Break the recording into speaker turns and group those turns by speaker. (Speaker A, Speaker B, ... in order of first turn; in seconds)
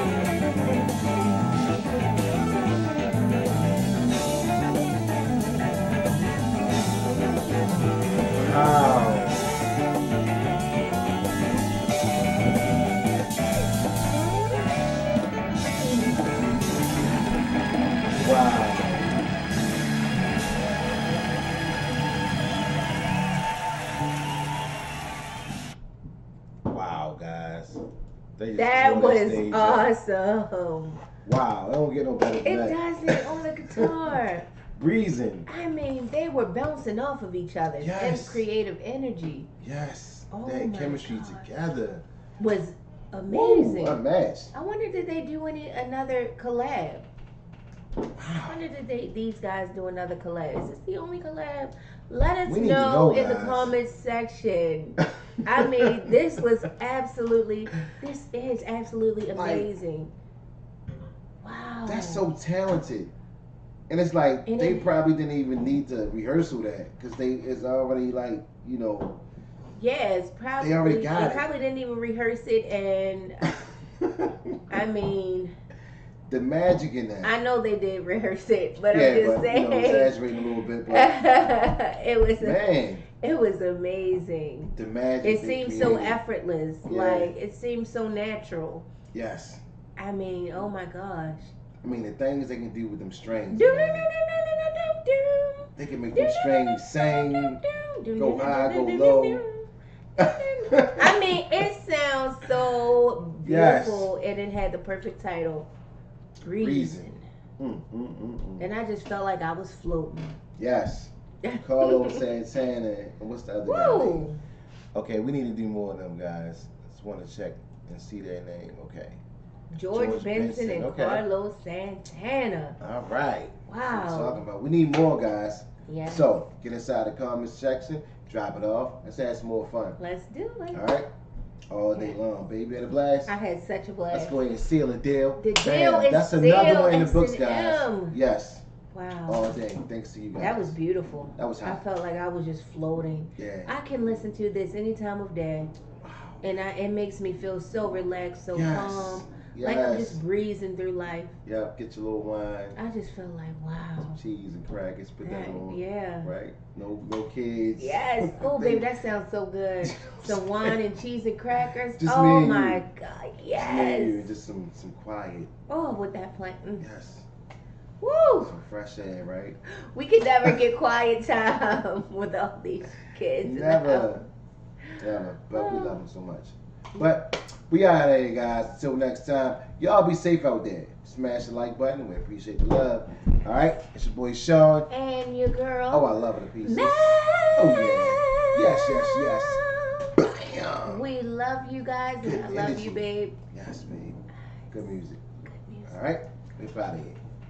Speaker A: 8.3-9.5, 18.1-19.2, 26.7-27.8, 28.4-29.9, 31.2-34.2, 34.8-35.5, 37.8-38.5, 39.6-42.0, 43.3-44.5, 48.2-48.6, 52.5-53.7, 55.0-56.1, 59.3-59.7, 61.9-63.1, 63.9-69.2, 70.6-71.5, 74.0-74.8, 76.3-77.3, 78.9-81.2, 82.4-83.0, 84.8-86.2, 86.9-87.3, 89.1-89.6, 91.8-94.1, 95.8-97.6, 98.2-99.4, 100.2-101.4, 103.4-104.1, 106.6-107.1, 107.6-108.7, 110.6-114.3, 114.9-119.2, 119.9-121.2, 122.8-130.0, 130.7-131.1, 131.7-133.3, 134.1-138.7, 139.3-140.7, 141.3-141.8, 143.4-143.7, 146.0-146.5, 148.5-150.2, 151.4-152.8, 154.1-158.9, 159.8-160.8, 162.0-162.8, 163.5-165.5, 166.8-167.3, 168.4-169.6, 173.4-174.2, 175.0-184.9, 185.9-189.6, 190.2-191.0, 192.2-194.2, 194.7-195.2, 195.9-197.2
Speaker B: 28.5-31.0, 32.4-34.5, 35.5-39.5, 40.3-41.5, 42.4-44.0, 44.5-47.1, 48.5-60.1, 61.4-62.3, 64.5-64.9, 69.8-73.5, 74.7-75.5, 77.2-80.2, 80.9-88.9, 90.0-91.5, 93.5-99.7, 100.2-105.7, 106.4-107.3, 108.6-110.4, 111.4-112.2, 113.7-114.4, 119.7-122.8, 123.7-124.4, 125.9-126.3, 130.0-130.9, 131.9-132.2, 133.3-134.4, 135.4-138.2, 138.9-139.5, 140.4-145.7, 146.4-151.3, 152.8-154.2, 155.2-156.3, 157.8-164.3, 165.7-166.8, 168.0-168.5, 169.7-174.1, 175.5-176.0, 184.9-190.3, 190.8-193.4, 195.4-196.0